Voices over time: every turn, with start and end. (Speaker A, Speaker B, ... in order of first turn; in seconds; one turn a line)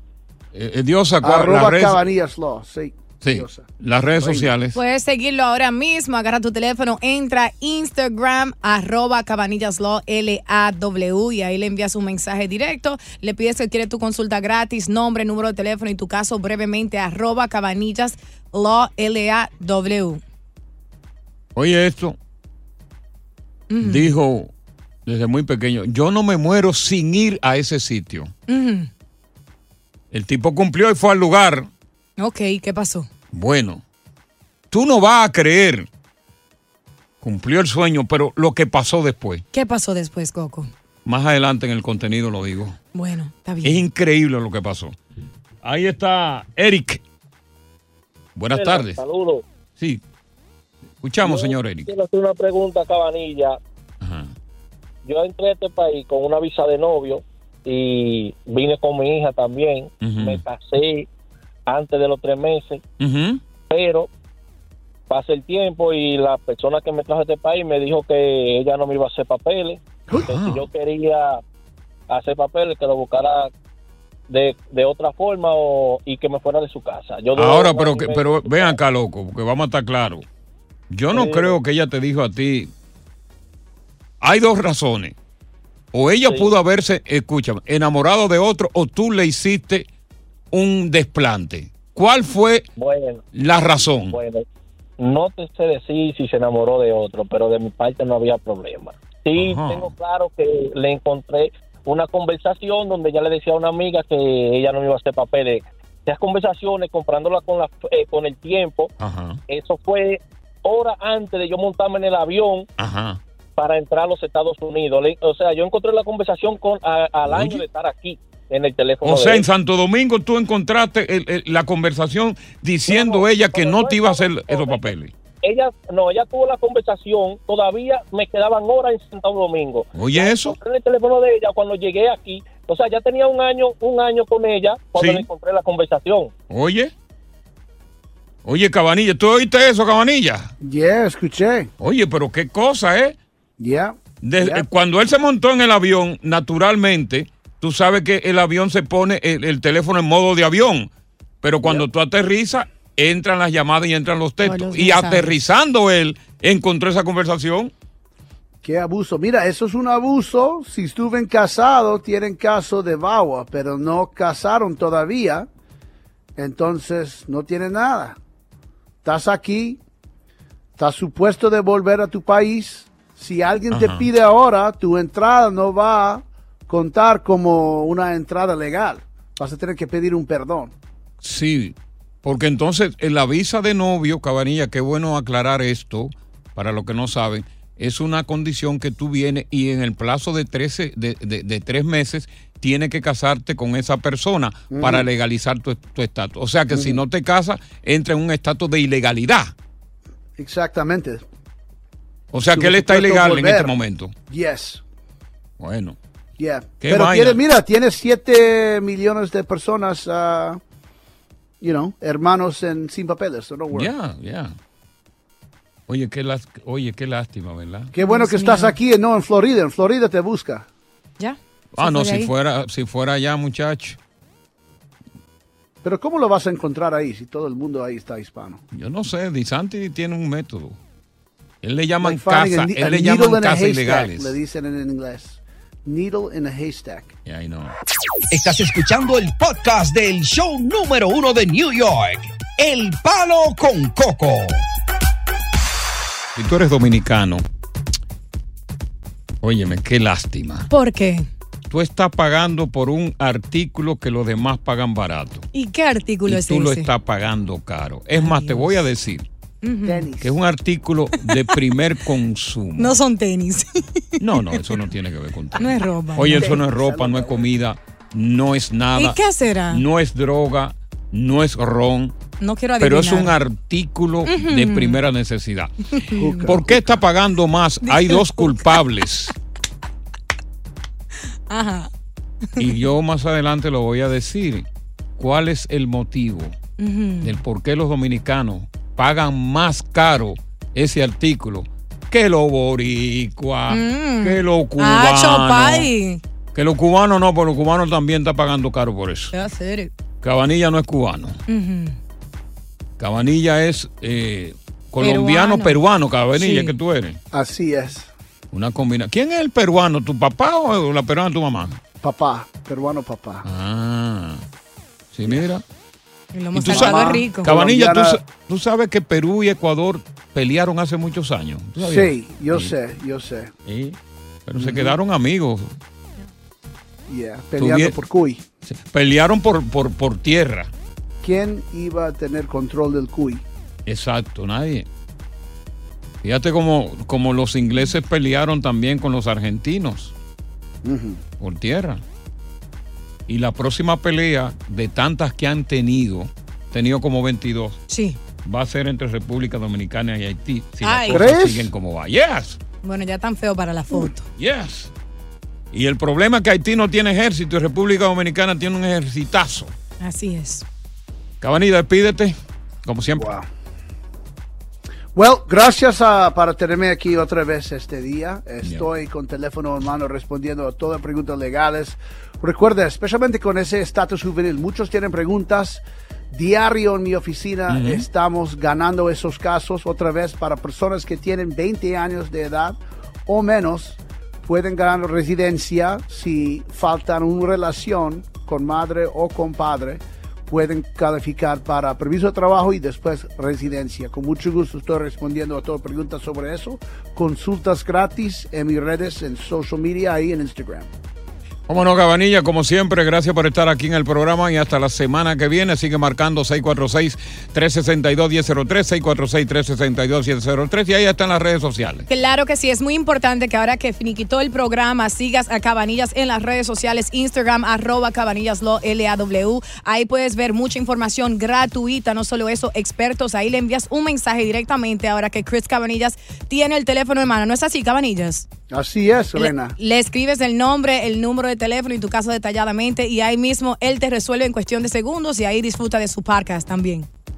Speaker A: 0.5-2.0
Speaker B: 1.2-4.5
Speaker A: 3.2-4.8
Speaker C: 4.7-20.2
Speaker A: 21.6-22.2
Speaker C: 23.7-24.1
Speaker A: 23.8-24.5
Speaker A: 25.1-28.3
Speaker C: 28.5-28.9
Speaker A: 30.1-31.7
Speaker C: 32.2-33.1
Speaker A: 33.3-33.8
Speaker A: 34.7-35.9
Speaker A: 37.2-39.4
Speaker C: 39.5-40.7
Speaker A: 41.0-42.8
Speaker C: 42.9-43.8
Speaker A: 43.6-45.0
Speaker A: 45.6-47.0
Speaker A: 48.4-49.0
Speaker D: 48.5-49.4
Speaker A: 51.0-51.9
Speaker D: 51.2-53.6
Speaker A: 54.0-54.3
Speaker D: 55.0-61.1
Speaker A: 60.0-60.4
Speaker D: 61.7-62.8
Speaker A: 63.0-63.4
Speaker D: 63.7-64.1
Speaker D: 65.1-71.4
Speaker A: 70.2-70.7
Speaker D: 72.1-73.5
Speaker D: 74.3-78.8
Speaker A: 77.3-80.2
Speaker A: 80.9-82.7
Speaker D: 81.1-81.6
Speaker A: 84.2-85.2
Speaker A: 85.9-89.9
Speaker D: 86.2-86.5
Speaker A: 90.5-92.7
Speaker D: 92.8-93.2
Speaker A: 93.3-94.2
Speaker D: 94.1-94.4
Speaker D: 95.0-108.9
Speaker A: 99.3-99.9
Speaker A: 109.0-109.4
Speaker D: 109.5-112.7
Speaker A: 112.8-113.2
Speaker D: 113.6-119.5
Speaker A: 117.2-117.7
Speaker A: 119.0-125.1
Speaker D: 122.9-136.3
Speaker A: 129.9-130.6
Speaker A: 134.9-135.3
Speaker A: 136.5-136.9
Speaker A: 138.4-140.5
Speaker B: 140.6-141.7
Speaker A: 141.8-143.2
Speaker B: 143.6-144.7
Speaker A: 144.2-150.9
Speaker A: 151.4-157.7
Speaker C: 154.4-155.3
Speaker B: 158.6-165.5
Speaker B: 166.4-168.2
Speaker B: 169.0-169.8
Speaker B: 170.8-180.7
Speaker A: 173.7-174.1
Speaker A: 181.2-199.5
Speaker B: 194.7-195.1
Speaker B: 196.7-197.0
Speaker B: 200.4-201.2
Speaker A: 202.3-204.1
Speaker B: 202.5-203.7
Speaker B: 204.3-204.8
Speaker A: 205.6-206.0
Speaker B: 206.4-210.6
Speaker A: 206.8-207.4
Speaker B: 211.6-213.9
Speaker A: 213.7-214.6
Speaker A: 215.9-217.9
Speaker B: 217.9-220.7
Speaker C: 218.0-218.8
Speaker C: 221.2-222.3
Speaker A: 221.8-224.0
Speaker B: 225.8-228.6
Speaker A: 228.7-230.8
Speaker A: 231.6-234.4
Speaker B: 232.0-237.1
Speaker A: 237.3-237.8
Speaker E: 238.3-244.7
Speaker A: 246.4-247.4
Speaker A: 249.4-250.7
Speaker C: 250.7-251.3
Speaker A: 251.7-255.5
Speaker C: 255.5-256.9
Speaker A: 256.3-259.2
Speaker C: 258.2-258.8
Speaker C: 259.6-260.1
Speaker B: 259.8-260.4
Speaker A: 260.2-263.0
Speaker C: 262.8-264.2
Speaker A: 264.2-269.2
Speaker C: 265.6-266.6
Speaker B: 266.3-267.5
Speaker C: 268.9-269.8
Speaker A: 269.7-272.1
Speaker C: 272.4-273.4
Speaker A: 272.8-279.3
Speaker C: 274.3-275.0
Speaker C: 276.0-276.5
Speaker B: 276.2-277.0
Speaker C: 277.9-278.7
Speaker C: 281.5-281.9
Speaker A: 282.6-284.7
Speaker A: 285.2-286.6
Speaker C: 286.8-287.4
Speaker A: 287.2-295.9
Speaker C: 293.7-296.2
Speaker A: 296.5-299.3
Speaker C: 299.3-299.9
Speaker A: 300.2-301.4
Speaker C: 301.5-302.0
Speaker A: 303.0-307.2
Speaker C: 305.0-305.8
Speaker C: 306.3-306.7
Speaker B: 307.3-308.1
Speaker A: 308.5-311.8
Speaker B: 312.0-313.4
Speaker A: 313.4-314.4
Speaker A: 315.1-315.6
Speaker C: 316.3-317.5
Speaker A: 316.5-322.7
Speaker B: 316.7-318.2
Speaker B: 321.8-323.5
Speaker A: 323.7-325.7
Speaker B: 324.6-325.0
Speaker B: 327.1-328.4
Speaker A: 327.6-327.9
Speaker A: 328.7-330.7
Speaker B: 331.2-333.4
Speaker A: 333.9-334.9
Speaker A: 336.2-340.1
Speaker B: 340.8-341.2
Speaker A: 341.4-342.0
Speaker A: 343.3-347.8
Speaker C: 347.9-348.2
Speaker A: 348.4-352.6
Speaker C: 350.8-351.3
Speaker B: 351.1-351.7
Speaker C: 352.8-354.2
Speaker A: 354.4-354.9
Speaker A: 355.7-359.7
Speaker C: 360.0-360.6
Speaker A: 361.4-363.3
Speaker B: 363.2-363.5
Speaker B: 365.1-400.9
Speaker A: 377.7-378.1
Speaker A: 401.7-412.1
Speaker C: 412.1-428.5
Speaker B: 428.7-429.8
Speaker C: 429.4-437.1